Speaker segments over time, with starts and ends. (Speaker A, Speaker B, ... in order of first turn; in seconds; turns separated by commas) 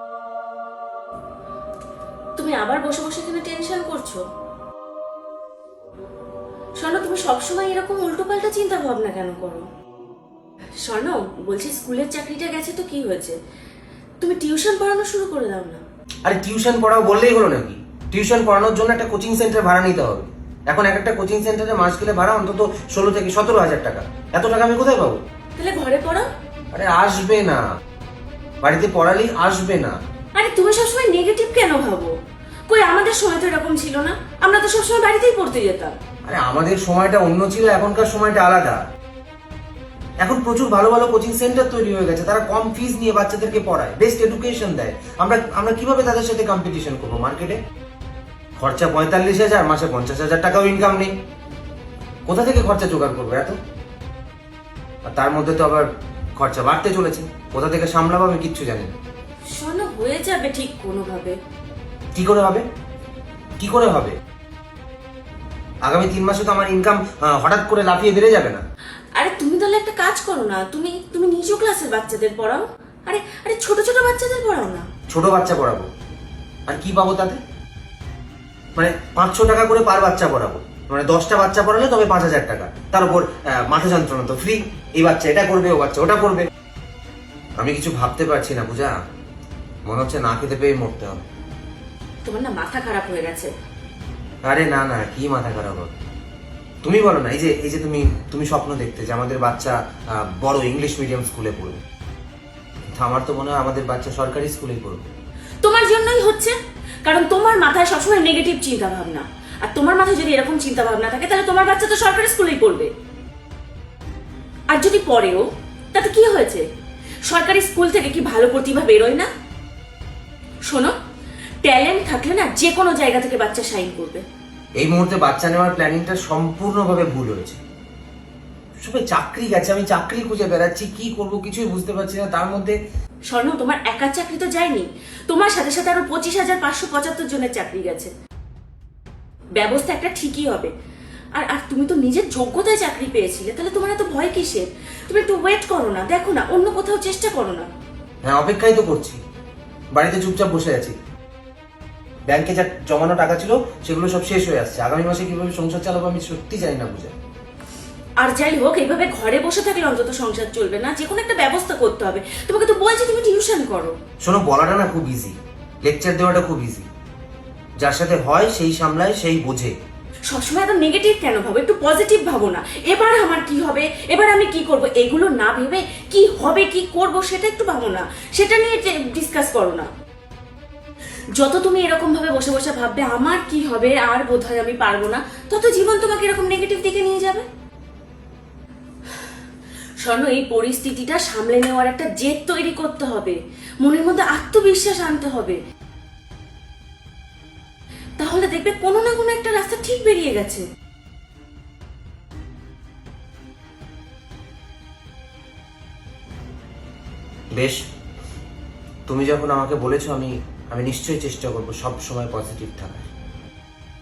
Speaker A: 2.4-4.2, Speaker A: 6.8-9.7, Speaker A: 10.8-13.4, Speaker A: 14.2-15.8, Speaker B: 16.2-25.2, Speaker A: 25.6-26.3, Speaker B: 26.7-27.6, Speaker B: 28.6-30.0, Speaker A: 30.4-32.1, Speaker A: 32.7-36.0, Speaker B: 36.2-38.8, Speaker B: 40.2-47.6, Speaker B: 48.6-51.2, Speaker B: 52.3-53.6, Speaker B: 55.0-58.9, Speaker A: 59.5-61.4, Speaker B: 62.1-62.7, Speaker B: 63.6-64.2, Speaker B: 65.8-68.7, Speaker A: 69.2-74.9, Speaker B: 75.1-75.9, Speaker B: 76.7-77.4, Speaker B: 78.8-86.5, Speaker B: 87.6-89.0, Speaker B: 89.9-91.2, Speaker A: 92.2-93.5, Speaker B: 94.5-95.9, Speaker B: 96.8-101.8, Speaker B: 102.9-105.1, Speaker A: 105.6-112.9, Speaker A: 114.7-116.6, Speaker A: 117.2-119.3, Speaker A: 120.7-121.0, Speaker A: 121.6-124.2, Speaker B: 124.8-127.6, Speaker B: 128.8-132.8, Speaker A: 133.3-138.1, Speaker A: 139.6-140.7, Speaker A: 141.3-147.7, Speaker B: 148.2-149.2, Speaker B: 149.9-150.9, Speaker B: 152.3-157.2, Speaker A: 158.2-164.0, Speaker B: 164.2-166.9, Speaker B: 167.8-169.7, Speaker A: 170.3-179.9, Speaker A: 181.3-187.5, Speaker A: 190.0-195.6, Speaker A: 198.2-200.7, Speaker B: 207.6-207.8, Speaker B: 209.1-213.1